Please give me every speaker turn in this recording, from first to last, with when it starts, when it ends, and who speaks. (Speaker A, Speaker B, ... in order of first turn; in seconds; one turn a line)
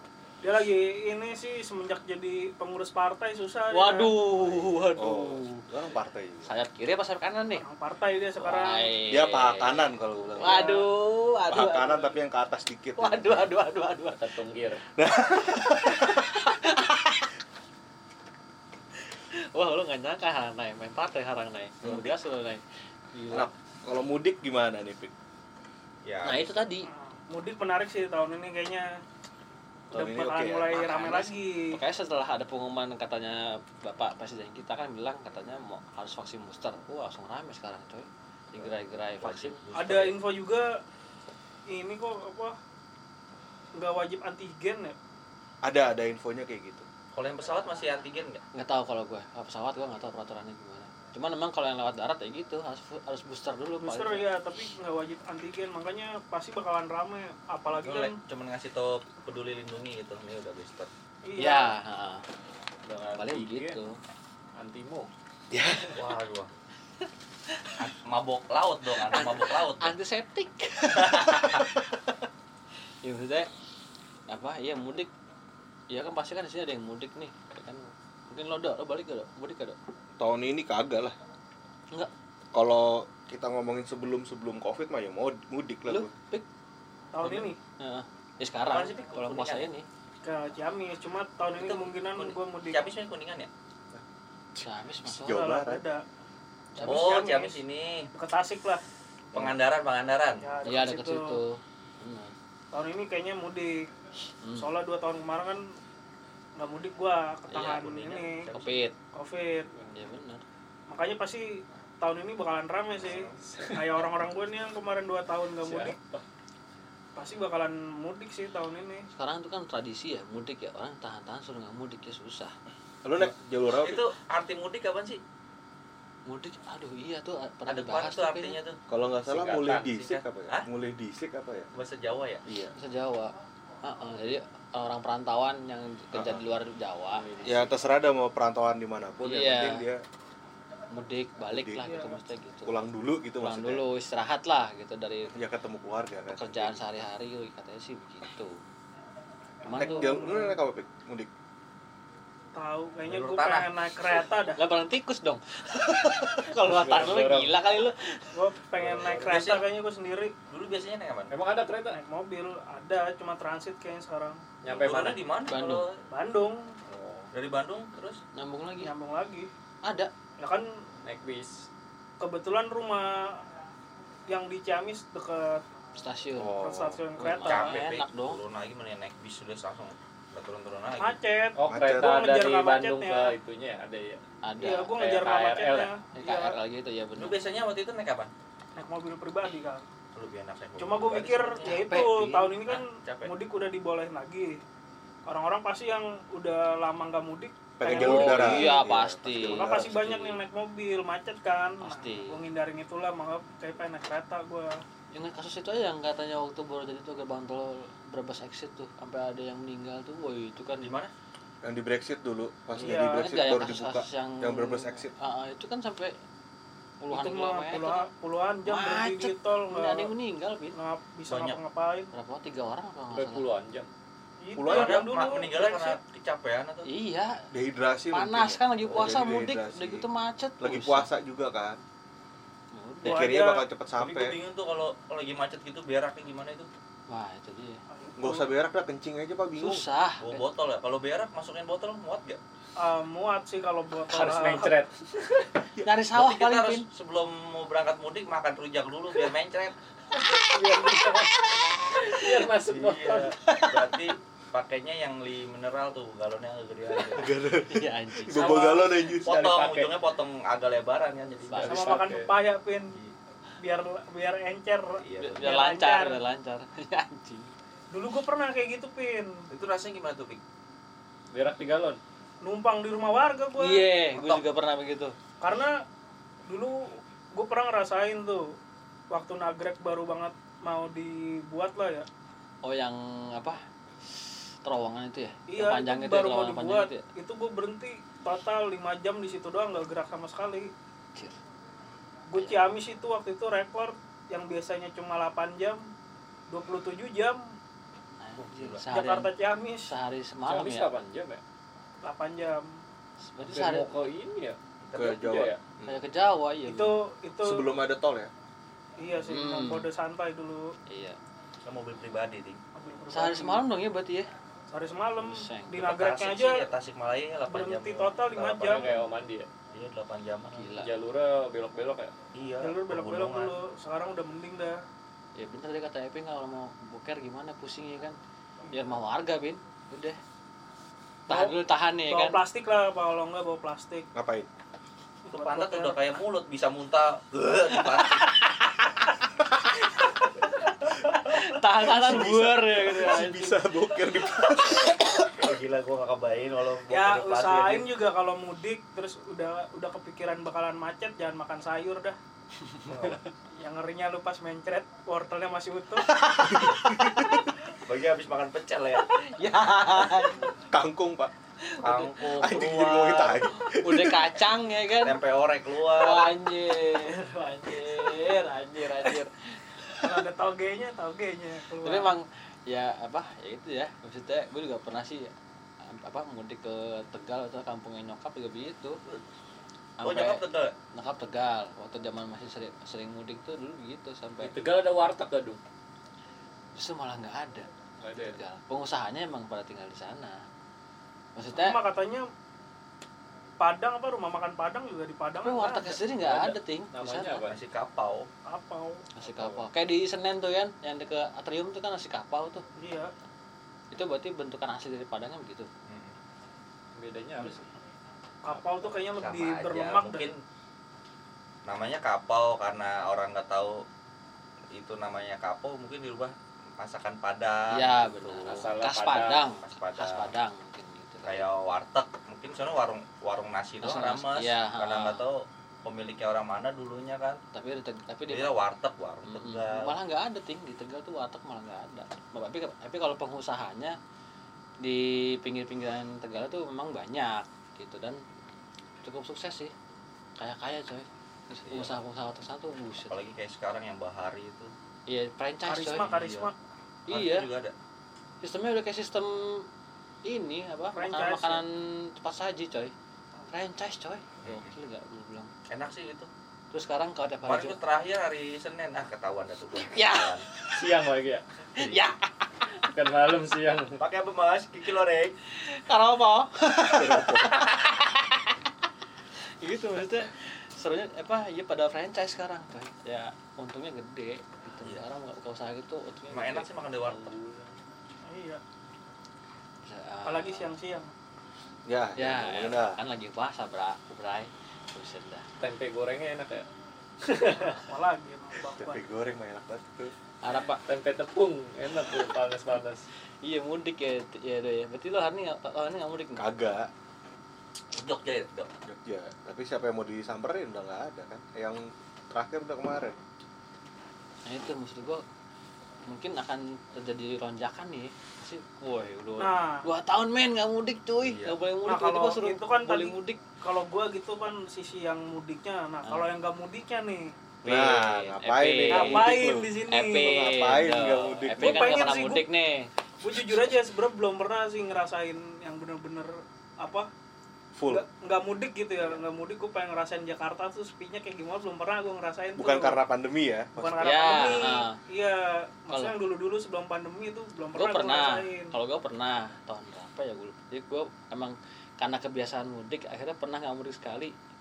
Speaker A: 0.4-4.1
Speaker B: 3.7-5.6
Speaker C: 4.9-6.5
Speaker B: 6.4-7.6
Speaker A: 7.5-9.0
Speaker B: 8.4-12.1
Speaker C: 9.1-10.8
Speaker A: 10.4-10.9
Speaker C: 11.5-13.5
Speaker B: 13.0-14.3
Speaker D: 14.2-14.8
Speaker C: 14.9-16.2
Speaker B: 15.6-17.1
Speaker B: 19.5-23.5
Speaker C: 21.8-22.1
Speaker C: 23.3-25.1
Speaker E: 26.0-26.6
Speaker B: 26.2-26.9
Speaker A: 26.9-28.9
Speaker C: 29.9-30.8
Speaker A: 29.9-31.8
Speaker B: 30.7-39.6
Speaker E: 38.6-40.2
Speaker A: 39.7-40.8
Speaker A: 41.7-42.5
Speaker A: 43.8-45.0
Speaker C: 45.6-46.9
Speaker E: 47.1-48.4
Speaker B: 48.5-54.3
Speaker A: 53.8-58.1
Speaker E: 57.7-60.9
Speaker A: 61.2-61.7
Speaker B: 61.4-62.2
Speaker D: 62.9-63.8
Speaker B: 63.1-64.0
Speaker D: 64.6-65.1
Speaker C: 65.5-66.0
Speaker E: 66.0-66.5
Speaker E: 67.8-69.9
Speaker B: 69.1-72.1
Speaker E: 71.0-71.6
Speaker B: 73.0-73.5
Speaker B: 74.3-75.1
Speaker B: 75.9-79.8
Speaker C: 80.2-81.1
Speaker C: 82.5-86.1
Speaker B: 85.9-86.5
Speaker A: 87.1-87.6
Speaker E: 87.2-87.5
Speaker B: 87.8-89.8
Speaker E: 88.6-89.7
Speaker A: 90.2-92.9
Speaker E: 91.5-93.5
Speaker C: 94.6-95.8
Speaker B: 94.6-95.4
Speaker A: 95.2-96.0
Speaker B: 96.8-97.3
Speaker A: 96.8-97.6
Speaker E: 96.8-98.1
Speaker A: 98.1-98.8
Speaker E: 99.3-100.4
Speaker A: 100.4-101.4
Speaker B: 100.6-102.3
Speaker A: 102.7-103.9
Speaker B: 104.4-104.7
Speaker A: 104.6-105.8
Speaker A: 106.6-108.5
Speaker E: 107.5-108.8
Speaker B: 108.5-108.9
Speaker A: 109.1-109.7
Speaker B: 109.9-110.4
Speaker A: 110.9-116.0
Speaker D: 113.5-114.0
Speaker D: 115.6-116.2
Speaker A: 117.2-119.1
Speaker B: 119.1-122.5
Speaker C: 123.0-124.0
Speaker E: 123.8-125.2
Speaker B: 126.2-128.6
Speaker E: 127.7-128.8
Speaker C: 128.9-131.7
Speaker D: 129.3-129.9
Speaker E: 129.9-130.7
Speaker E: 131.7-132.4
Speaker C: 132.4-132.7
Speaker B: 132.8-133.3
Speaker B: 133.8-137.2
Speaker C: 136.1-136.4
Speaker D: 137.1-137.7
Speaker C: 137.4-140.0
Speaker B: 139.2-139.8
Speaker B: 140.9-142.8
Speaker C: 141.5-142.0
Speaker A: 141.8-142.1
Speaker C: 142.7-143.8
Speaker B: 143.4-145.4
Speaker C: 145.3-146.8
Speaker B: 146.3-148.6
Speaker B: 149.6-150.1
Speaker A: 149.7-150.6
Speaker C: 149.7-151.3
Speaker A: 152.6-154.6
Speaker E: 153.1-153.7
Speaker B: 154.6-158.4
Speaker D: 156.6-157.6
Speaker A: 158.3-160.3
Speaker D: 158.8-159.4
Speaker E: 159.2-159.6
Speaker E: 160.5-161.3
Speaker D: 161.3-162.0
Speaker A: 161.9-164.4
Speaker E: 164.6-166.0
Speaker D: 164.6-165.2
Speaker B: 165.5-165.9
Speaker A: 166.1-166.7
Speaker D: 166.9-167.3
Speaker E: 167.3-168.2
Speaker B: 168.4-168.9
Speaker A: 168.8-169.5
Speaker A: 170.4-170.7
Speaker D: 171.0-171.7
Speaker A: 172.2-173.4
Speaker A: 174.3-175.6
Speaker B: 176.0-176.6
Speaker C: 176.4-177.0
Speaker A: 176.6-177.8
Speaker B: 177.2-178.4
Speaker E: 177.4-181.2
Speaker A: 180.9-183.3
Speaker D: 181.6-184.2
Speaker C: 181.7-182.2
Speaker B: 184.4-184.9
Speaker A: 184.6-186.6
Speaker D: 184.9-185.9
Speaker B: 186.1-187.4
Speaker E: 187.2-188.3
Speaker A: 188.8-189.8
Speaker E: 190.1-191.8
Speaker A: 190.8-194.6
Speaker B: 191.6-192.5
Speaker E: 192.6-193.3
Speaker A: 195.3-198.7
Speaker C: 197.8-200.2
Speaker B: 197.9-199.8
Speaker A: 199.4-204.8
Speaker B: 201.8-202.4
Speaker B: 205.1-210.9
Speaker E: 210.8-211.1
Speaker C: 211.6-215.1
Speaker B: 212.8-216.1
Speaker A: 212.8-213.3
Speaker B: 217.0-218.1
Speaker A: 217.1-220.1
Speaker B: 218.6-220.8
Speaker A: 220.7-222.1
Speaker E: 221.3-221.6
Speaker B: 222.1-223.4
Speaker D: 223.1-223.9
Speaker A: 224.4-226.0
Speaker C: 224.6-225.1
Speaker E: 224.7-226.9
Speaker B: 226.9-227.4
Speaker C: 227.5-230.1
Speaker B: 228.1-231.1
Speaker E: 228.9-229.2
Speaker C: 230.6-231.8
Speaker B: 232.7-233.4
Speaker A: 233.0-233.6
Speaker C: 233.0-234.3
Speaker E: 234.0-236.7
Speaker B: 237.1-237.8
Speaker A: 237.9-238.4
Speaker C: 238.2-239.8
Speaker B: 239.6-240.4
Speaker E: 240.2-242.4
Speaker A: 242.8-244.8
Speaker D: 244.1-245.4
Speaker B: 245.8-246.9
Speaker E: 246.1-249.7
Speaker D: 250.4-253.4
Speaker B: 250.5-252.3
Speaker E: 252.6-257.3
Speaker B: 253.4-253.9
Speaker C: 257.1-259.3
Speaker B: 257.7-259.1
Speaker D: 259.2-259.9
Speaker E: 259.2-262.0
Speaker B: 261.5-262.2
Speaker D: 261.6-262.3
Speaker A: 261.6-262.9
Speaker A: 263.6-266.2
Speaker E: 265.0-265.5
Speaker B: 265.2-267.5
Speaker A: 267.9-269.3
Speaker E: 269.5-270.4
Speaker D: 271.3-272.0
Speaker A: 272.4-273.9
Speaker B: 273.6-275.1
Speaker A: 275.4-275.8
Speaker A: 276.5-278.4
Speaker A: 279.1-282.1
Speaker B: 282.6-283.6
Speaker B: 284.1-287.0
Speaker A: 285.5-290.7
Speaker A: 292.3-295.8
Speaker A: 296.5-297.4
Speaker B: 298.2-299.3
Speaker E: 298.4-298.9
Speaker A: 298.9-299.9
Speaker B: 299.9-300.9
Speaker D: 300.5-301.4
Speaker A: 302.0-302.6
Speaker B: 303.2-303.9
Speaker D: 303.4-305.6
Speaker E: 304.8-305.2
Speaker C: 304.9-305.8
Speaker B: 305.9-306.9
Speaker A: 306.7-307.7
Speaker C: 307.4-308.3
Speaker A: 309.0-310.7
Speaker B: 309.3-309.9
Speaker B: 310.9-311.2
Speaker E: 311.6-312.6
Speaker A: 312.7-313.6
Speaker B: 313.1-314.3
Speaker A: 314.7-316.7
Speaker B: 315.2-315.8
Speaker E: 315.8-318.9
Speaker A: 317.5-318.9
Speaker D: 318.7-319.5
Speaker E: 319.7-320.7
Speaker B: 320.5-320.9
Speaker D: 320.8-322.1
Speaker E: 322.4-323.6
Speaker A: 322.6-324.8
Speaker B: 325.4-328.1
Speaker B: 328.7-330.2
Speaker B: 331.3-332.4
Speaker A: 331.3-331.6
Speaker A: 332.1-334.1
Speaker C: 334.1-334.5
Speaker A: 335.3-335.9
Speaker E: 335.3-338.2
Speaker B: 337.9-339.0
Speaker B: 340.9-343.6
Speaker C: 341.7-345.0
Speaker B: 344.2-345.4
Speaker E: 345.3-347.9
Speaker A: 346.9-352.1
Speaker E: 352.9-353.2
Speaker A: 353.6-356.1
Speaker B: 356.2-357.2
Speaker C: 356.4-357.4
Speaker E: 357.9-359.1
Speaker B: 359.2-360.5
Speaker C: 360.7-361.3
Speaker B: 361.6-365.2
Speaker E: 361.8-363.4
Speaker C: 362.4-364.4
Speaker E: 365.0-366.3
Speaker B: 365.9-369.3
Speaker A: 370.0-372.1
Speaker B: 371.8-375.3
Speaker B: 375.9-379.0
Speaker B: 380.0-380.4
Speaker E: 380.0-380.7
Speaker B: 380.9-384.5
Speaker D: 384.4-385.6
Speaker B: 386.7-390.4
Speaker D: 388.0-388.4
Speaker B: 391.4-391.8
Speaker A: 391.5-392.3
Speaker A: 393.6-396.0
Speaker B: 395.4-397.4
Speaker D: 396.2-397.6
Speaker E: 397.5-398.3
Speaker A: 398.5-399.0
Speaker B: 399.1-402.6
Speaker D: 399.2-399.6
Speaker A: 402.8-403.1
Speaker B: 403.9-405.7
Speaker E: 405.9-406.1
Speaker D: 406.9-407.6
Speaker A: 408.4-410.3
Speaker D: 408.5-408.9
Speaker E: 409.2-410.4
Speaker E: 411.6-413.8
Speaker E: 414.7-418.6
Speaker B: 417.7-421.5
Speaker D: 418.5-419.4
Speaker E: 419.6-420.3
Speaker E: 421.2-427.4
Speaker B: 423.8-425.2
Speaker B: 427.5-428.6
Speaker E: 428.3-429.9
Speaker B: 429.2-433.9
Speaker B: 434.8-438.2
Speaker B: 439.0-439.7
Speaker B: 440.4-443.2
Speaker E: 441.5-441.9
Speaker E: 443.1-444.7
Speaker B: 445.1-446.1
Speaker A: 445.7-446.5
Speaker E: 446.1-446.5
Speaker B: 447.1-447.5
Speaker E: 447.1-447.7
Speaker B: 448.4-449.6
Speaker B: 450.2-452.9
Speaker A: 450.9-451.6
Speaker B: 453.5-455.5
Speaker E: 454.4-454.7
Speaker E: 455.7-456.3
Speaker B: 456.7-457.8
Speaker E: 457.4-460.4
Speaker B: 459.9-460.8
Speaker D: 460.8-461.4
Speaker E: 461.8-462.0
Speaker B: 461.8-462.2
Speaker D: 462.8-463.9
Speaker E: 464.0-465.4
Speaker B: 465.6-468.6
Speaker C: 466.9-467.6
Speaker B: 469.6-477.3
Speaker E: 474.8-475.1
Speaker E: 476.3-477.3
Speaker D: 477.2-477.7
Speaker A: 478.3-478.6
Speaker B: 479.9-480.7
Speaker A: 480.2-481.1
Speaker C: 481.9-483.0
Speaker B: 482.2-485.4
Speaker D: 485.6-486.6
Speaker D: 487.2-487.7
Speaker A: 487.6-489.0
Speaker C: 488.8-490.1
Speaker B: 490.4-490.8
Speaker D: 490.8-493.1
Speaker B: 493.4-496.4
Speaker C: 496.4-496.9
Speaker E: 497.9-498.7
Speaker C: 498.9-503.1
Speaker B: 504.4-505.2
Speaker B: 506.1-513.4
Speaker A: 509.4-509.9
Speaker E: 511.2-511.6
Speaker A: 511.9-517.3
Speaker B: 516.0-516.3
Speaker C: 517.6-522.2
Speaker B: 517.6-522.9
Speaker A: 518.9-520.4
Speaker A: 521.6-522.5
Speaker A: 523.2-527.1
Speaker C: 527.8-528.0
Speaker A: 527.9-533.0
Speaker C: 532.6-534.5
Speaker A: 533.7-538.7
Speaker B: 534.0-535.0
Speaker B: 537.7-544.3